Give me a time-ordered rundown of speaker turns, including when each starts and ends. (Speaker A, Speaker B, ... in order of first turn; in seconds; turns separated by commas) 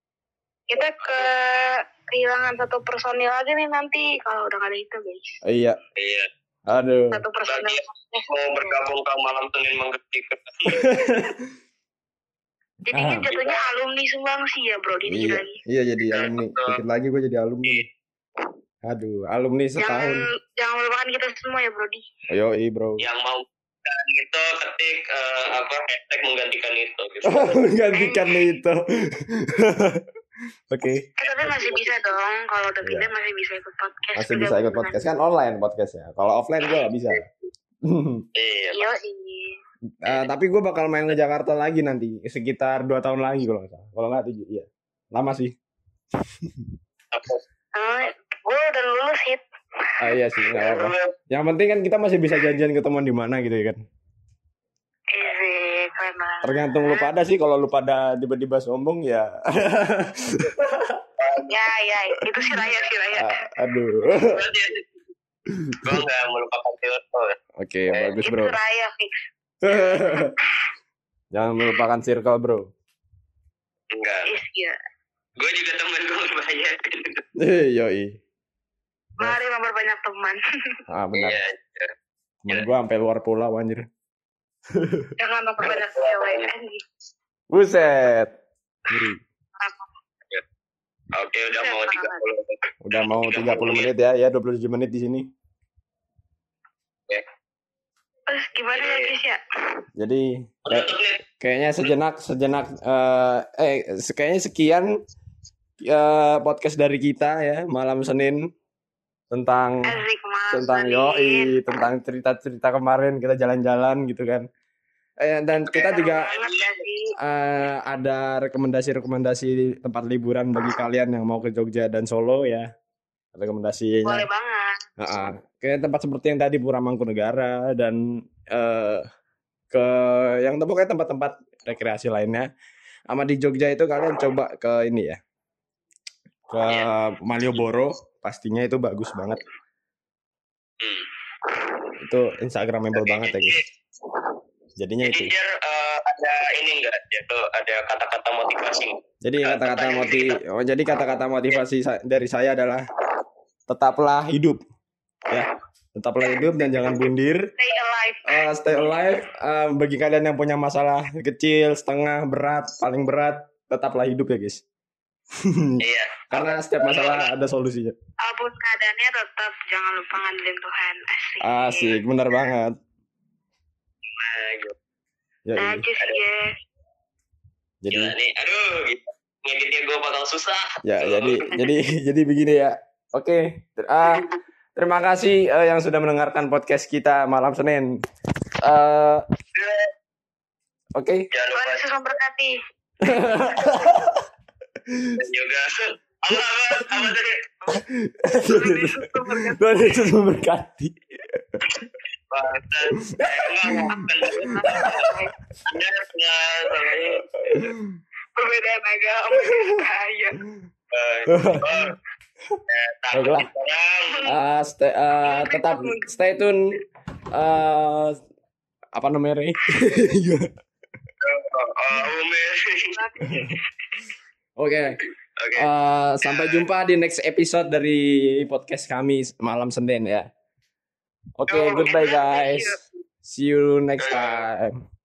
Speaker A: 0.7-5.3, Speaker B: 0.8-1.3, Speaker C: 5.5-5.8, Speaker B: 6.0-6.3, Speaker C: 6.7-7.2, Speaker A: 7.1-8.8, Speaker B: 7.5-11.0, Speaker C: 10.7-11.4, Speaker A: 12.9-15.6, Speaker C: 12.9-13.3, Speaker B: 13.3-13.6, Speaker C: 15.1-17.9, Speaker B: 16.1-16.8, Speaker C: 18.9-20.2, Speaker A: 19.8-22.0, Speaker C: 22.3-23.0, Speaker B: 23.0-27.7, Speaker C: 27.3-30.0, Speaker A: 27.9-28.3, Speaker C: 30.7-31.1, Speaker A: 31.2-35.0, Speaker B: 31.2-32.0, Speaker C: 32.8-33.1, Speaker C: 34.2-37.3, Speaker B: 36.6-37.2, Speaker C: 37.9-38.3, Speaker B: 38.4-38.9, Speaker A: 38.7-39.6, Speaker C: 40.0-45.5, Speaker C: 46.2-46.7, Speaker B: 47.1-47.4, Speaker A: 47.8-49.4, Speaker C: 50.0-53.8, Speaker B: 50.5-51.1, Speaker A: 55.1-57.1, Speaker C: 56.4-61.0, Speaker B: 61.2-61.6, Speaker A: 61.5-63.5, Speaker C: 63.1-64.4, Speaker B: 64.1-64.9, Speaker C: 65.5-66.0, Speaker B: 65.8-67.4, Speaker C: 67.6-68.6, Speaker B: 67.9-68.2, Speaker A: 68.2-70.2, Speaker C: 69.6-70.3, Speaker C: 71.3-72.7, Speaker B: 73.9-74.3, Speaker A: 74.3-74.8, Speaker B: 75.4-77.2, Speaker C: 77.4-78.2, Speaker A: 79.2-80.4, Speaker C: 80.9-81.4, Speaker B: 81.1-81.9, Speaker C: 82.4-83.9, Speaker C: 84.7-85.1, Speaker A: 85.2-86.8, Speaker B: 85.6-86.5, Speaker C: 87.5-88.3, Speaker C: 88.9-89.2, Speaker A: 89.6-89.9, Speaker B: 91.2-93.9, Speaker A: 91.6-92.2, Speaker C: 92.8-95.3, Speaker A: 98.3-99.4, Speaker B: 98.7-99.1, Speaker C: 100.0-104.9, Speaker B: 100.7-101.2, Speaker C: 105.8-108.4, Speaker C: 109.3-110.0, Speaker A: 109.8-111.6, Speaker C: 110.5-114.5, Speaker C: 115.2-116.3, Speaker A: 115.7-117.1, Speaker B: 116.1-116.8, Speaker C: 117.2-122.7, Speaker C: 123.3-124.3, Speaker A: 124.0-124.8, Speaker C: 125.0-129.1, Speaker C: 129.7-132.5, Speaker C: 133.1-135.2, Speaker C: 136.5-139.4, Speaker B: 140.8-141.1, Speaker C: 142.0-143.6, Speaker B: 142.9-143.7, Speaker C: 144.8-145.3, Speaker B: 145.0-150.4, Speaker C: 149.2-152.8, Speaker C: 153.7-154.6, Speaker C: 155.3-157.5, Speaker A: 157.6-158.5, Speaker C: 158.3-164.6, Speaker C: 165.4-165.8, Speaker B: 165.8-167.3, Speaker C: 166.3-167.9, Speaker A: 168.2-172.0, Speaker C: 171.4-172.8, Speaker B: 174.2-174.8, Speaker C: 175.5-175.9, Speaker A: 175.6-176.5, Speaker C: 177.8-178.2, Speaker B: 177.9-181.5, Speaker C: 180.8-187.9, Speaker B: 184.1-184.4, Speaker C: 188.6-189.2, Speaker B: 189.6-189.9, Speaker C: 191.0-191.3, Speaker B: 191.3-191.8, Speaker A: 191.5-192.5, Speaker C: 193.0-194.2, Speaker C: 194.9-195.2, Speaker B: 195.2-197.4, Speaker C: 197.7-201.8, Speaker A: 198.4-200.0, Speaker B: 202.3-205.1, Speaker C: 203.0-205.0, Speaker A: 203.9-205.3, Speaker B: 205.7-207.3, Speaker C: 207.5-207.9, Speaker A: 208.4-210.4, Speaker B: 210.9-211.9, Speaker C: 211.3-211.7, Speaker B: 212.7-214.3, Speaker C: 213.1-213.5, Speaker C: 214.3-216.6, Speaker A: 215.2-216.2, Speaker C: 217.3-218.2, Speaker C: 218.9-220.5, Speaker B: 221.2-222.9, Speaker A: 222.9-223.6, Speaker C: 223.2-223.6, Speaker C: 224.6-225.0, Speaker B: 225.4-225.7, Speaker C: 225.6-230.3, Speaker B: 226.2-226.7, Speaker C: 231.4-234.8, Speaker A: 231.5-232.8, Speaker B: 234.0-234.4